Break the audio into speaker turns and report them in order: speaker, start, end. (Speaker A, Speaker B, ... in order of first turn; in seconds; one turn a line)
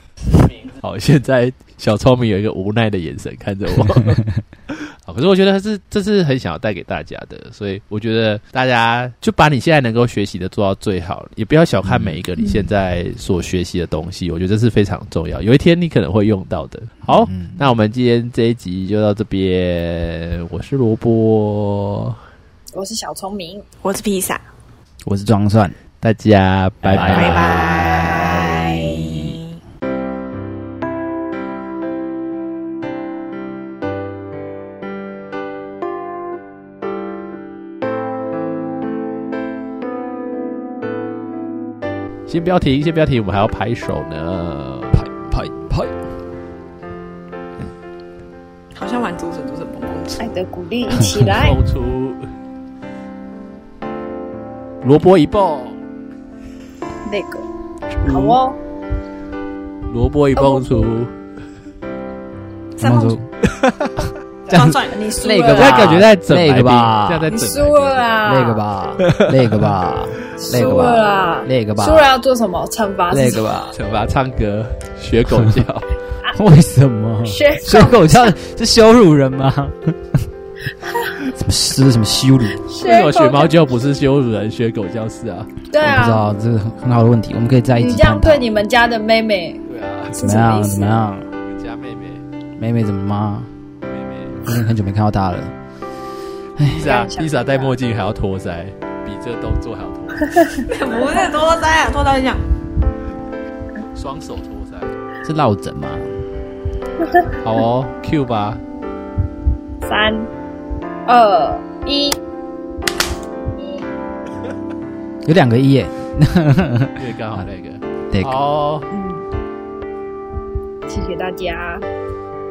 Speaker A: 0.4-22.1
Speaker B: 11.8-12.2
Speaker B: 17.1-17.7
Speaker C: 22.7-23.6
Speaker D: 23.8-24.4
Speaker B: 25.0-25.8
Speaker A: 26.0-28.3
Speaker B: 26.9-29.1
Speaker D: 26.9-29.4
Speaker A: 42.3-45.0
Speaker B: 44.9-46.0
Speaker D: 48.7-50.2
Speaker C: 50.2-51.6
Speaker B: 50.9-51.2
Speaker A: 51.1-52.2
Speaker A: 54.8-55.8
Speaker C: 57.0-57.4
Speaker A: 57.9-58.4
Speaker C: 58.1-58.6
Speaker A: 59.9-61.1
Speaker C: 60.4-61.0
Speaker D: 62.8-63.1
Speaker B: 62.8-63.3
Speaker A: 63.5-64.1
Speaker D: 64.5-65.0
Speaker B: 64.5-67.2
Speaker C: 64.9-66.0
Speaker A: 65.5-68.2
Speaker C: 67.2-68.6
Speaker B: 68.2-72.0
Speaker A: 69.1-69.8
Speaker C: 70.3-73.4
Speaker B: 73.1-73.7
Speaker A: 73.7-75.9
Speaker B: 76.3-80.2
Speaker C: 77.2-78.3
Speaker B: 81.3-82.6
Speaker C: 82.7-83.5
Speaker A: 82.8-85.5
Speaker C: 85.7-86.2
Speaker B: 85.8-88.4
Speaker C: 87.8-91.0
Speaker A: 89.7-90.2
Speaker B: 90.2-91.3
Speaker A: 91.4-92.2
Speaker B: 92.6-93.5
Speaker A: 93.9-94.6
Speaker B: 94.5-95.5
Speaker B: 96.6-96.9
Speaker A: 96.6-100.7
Speaker C: 96.8-97.8
Speaker C: 100.3-100.6
Speaker D: 100.7-102.4
Speaker A: 103.9-104.9
Speaker B: 105.2-106.2
Speaker A: 107.4-108.6
Speaker C: 109.8-110.3
Speaker C: 111.0-112.2
Speaker B: 115.2-117.4
Speaker A: 117.0-118.9
Speaker B: 118.1-118.4
Speaker C: 118.9-119.2
Speaker C: 120.9-121.8